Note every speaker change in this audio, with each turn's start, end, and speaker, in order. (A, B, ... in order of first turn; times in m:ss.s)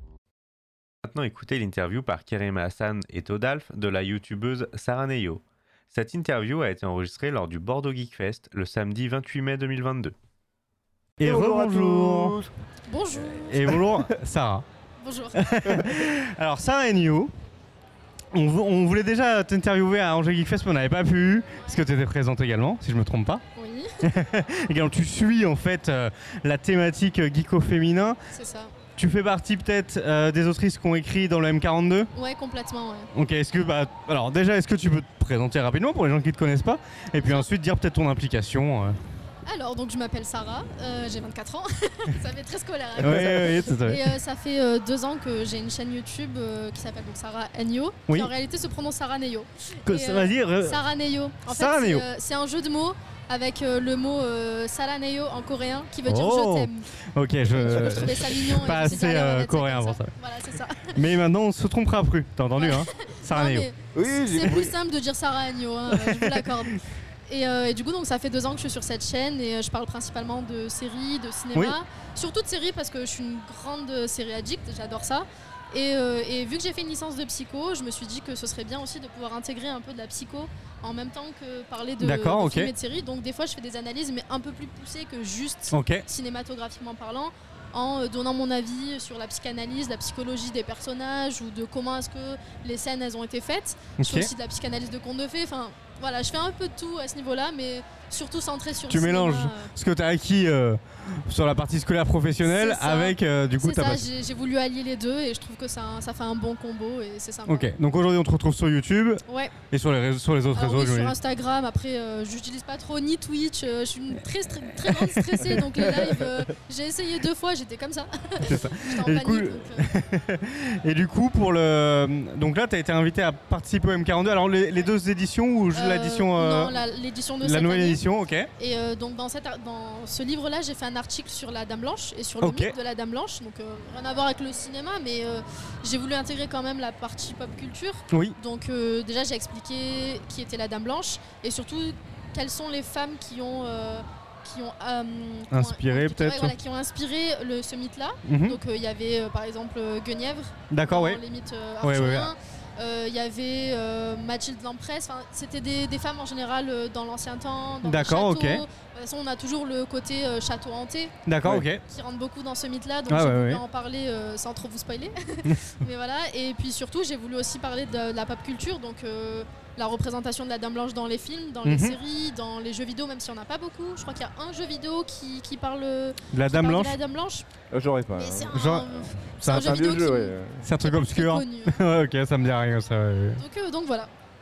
0:01.0-0:10.2 A
0:11.2-0:12.4 B
0:11.2-0:12.5 C
0:12.8-0:13.9 D
0:13.2-0:14.6 B
0:15.0-0:15.9 D
0:15.3-0:17.3 B
0:18.3-0:23.4 B
0:23.5-0:24.0 D
0:24.0-0:28.2 B
0:28.3-0:28.7 D
0:29.0-0:32.1 B
0:32.1-0:33.1 D
0:33.1-0:39.0 B
0:37.2-0:37.5 D
0:39.4-0:56.9 D
0:43.0-0:44.0 B
0:49.8-0:50.8 B
0:51.4-0:52.0 B
0:56.0-1:00.1 B
0:57.5-1:01.0 D
1:00.9-1:03.7 B
1:02.5-1:39.7 D
1:03.9-1:04.7 C
1:06.0-1:06.5 B
1:22.0-1:22.7 B
1:25.7-1:26.0 B
1:34.0-1:34.3 B
1:38.9-1:44.0 B
1:42.4-1:47.7 D
1:47.5-1:51.1 B
1:49.2-1:49.6 D
1:50.5-1:59.9 D
1:54.6-1:56.2 B
1:58.4-2:06.8 B
2:05.7-2:08.0 D
2:07.4-2:08.5 B
2:08.6-2:41.1 D
2:12.4-2:12.7 B
2:25.5-2:26.5 B
2:28.2-2:28.6 B
2:30.7-2:31.2 B
2:31.8-2:32.3 B
2:37.8-2:38.6 B
2:41.2-2:41.8 B
2:41.8-2:57.4 D
2:43.1-2:43.6 B
2:51.6-2:52.0 B
2:56.3-2:56.9 B
2:57.7-2:58.5 C
2:58.1-3:01.8 D
2:58.5-2:59.9 B
2:59.4-3:00.7 C
3:00.6-3:03.4 B
3:03.4-3:04.1 D